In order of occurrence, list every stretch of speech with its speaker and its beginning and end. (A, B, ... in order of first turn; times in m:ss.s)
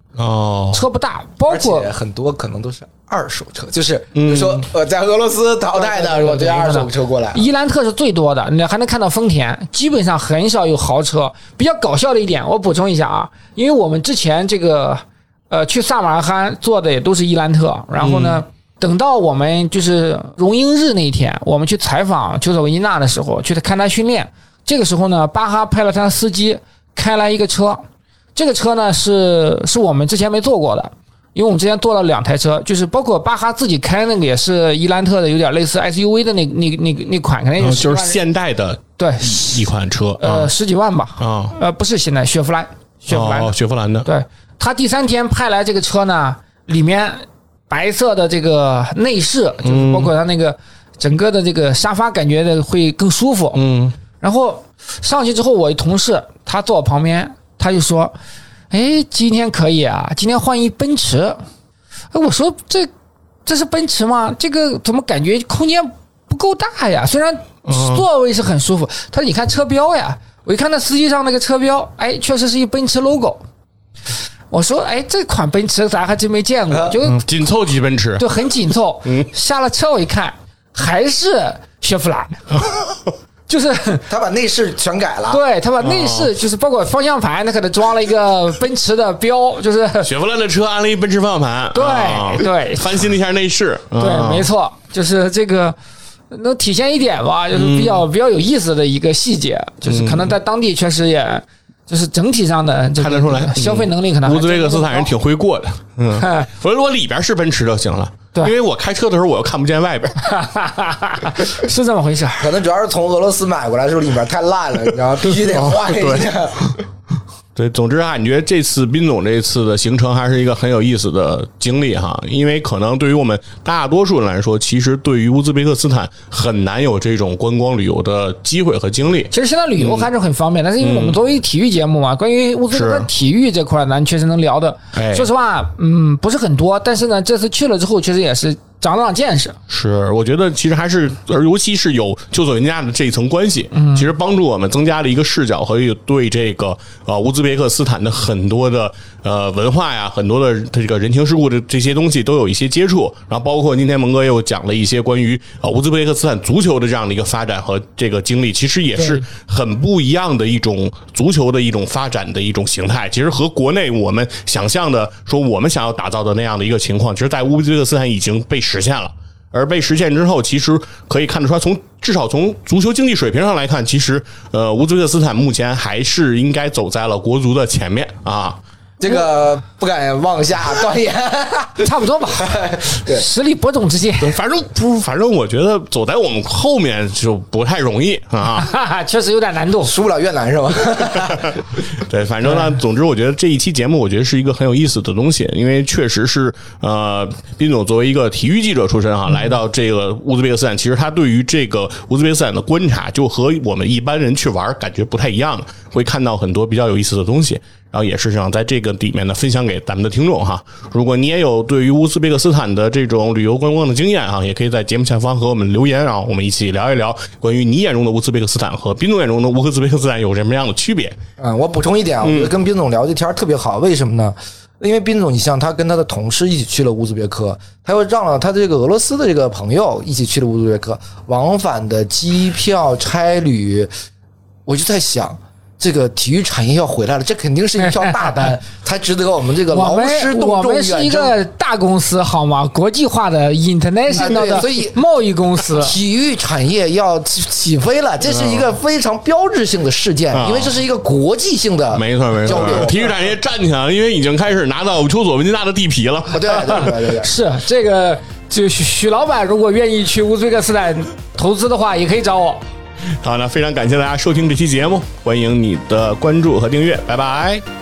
0:00.2-0:00.8 A
0:00.7-0:01.9 B
0:01.4-0:07.4 C
0:04.2-0:04.6 A
0:05.7-0:38.2 B
0:18.0-0:18.4 A
0:37.6-0:40.5 A
0:39.0-0:39.6 B
0:40.2-0:43.5 B
0:41.2-0:41.6 A
0:43.1-0:44.1 A
0:44.0-0:53.6 B
0:49.6-0:50.1 A
0:53.5-0:53.9 A
0:54.2-0:58.1 B
0:58.7-1:01.4 B
1:02.1-1:02.9 B
1:03.4-1:13.4 B
1:07.7-1:08.0 A
1:14.5-1:17.4 B
1:16.7-1:17.0 C
1:17.0-1:18.2 A
1:18.2-1:22.6 B
1:22.6-1:22.9 A
1:23.5-1:24.1 B
1:24.1-1:25.4 C
1:25.3-1:30.1 B
1:25.8-1:26.3 A
1:30.0-1:34.5 A
1:31.7-1:33.0 B
1:34.0-1:35.8 B
1:36.3-1:45.1 B
1:37.5-1:38.1 A
1:39.9-1:40.3 A
1:43.0-1:50.2 A
1:46.2-1:46.5 B
1:50.2-1:52.5 B
1:52.4-1:56.7 C
1:55.3-1:56.8 A
1:57.6-2:10.1 A
2:09.3-2:19.6 B
2:10.8-2:11.2 A
2:12.7-2:13.1 A
2:14.9-2:15.3 A
2:19.7-2:58.6 A
2:23.7-2:24.1 B
2:39.0-2:39.2 B
2:59.0-3:03.3 C
3:01.8-3:04.4 B
3:04.2-3:08.7 A
3:08.6-3:10.0 B
3:09.8-3:11.6 C
3:11.2-3:41.2 A
3:12.4-3:12.8 B
3:41.4-3:53.9 C
3:42.2-3:42.5 A
3:54.6-4:01.4 C
3:57.8-3:58.6 B
3:59.7-4:06.0 B
4:04.1-4:05.0 C
4:05.8-4:13.1 C
4:08.3-4:08.7 A
4:10.3-4:10.7 A
4:11.9-4:16.9 A
4:16.3-4:17.3 C
4:16.6-4:22.6 B
4:23.2-4:27.6 A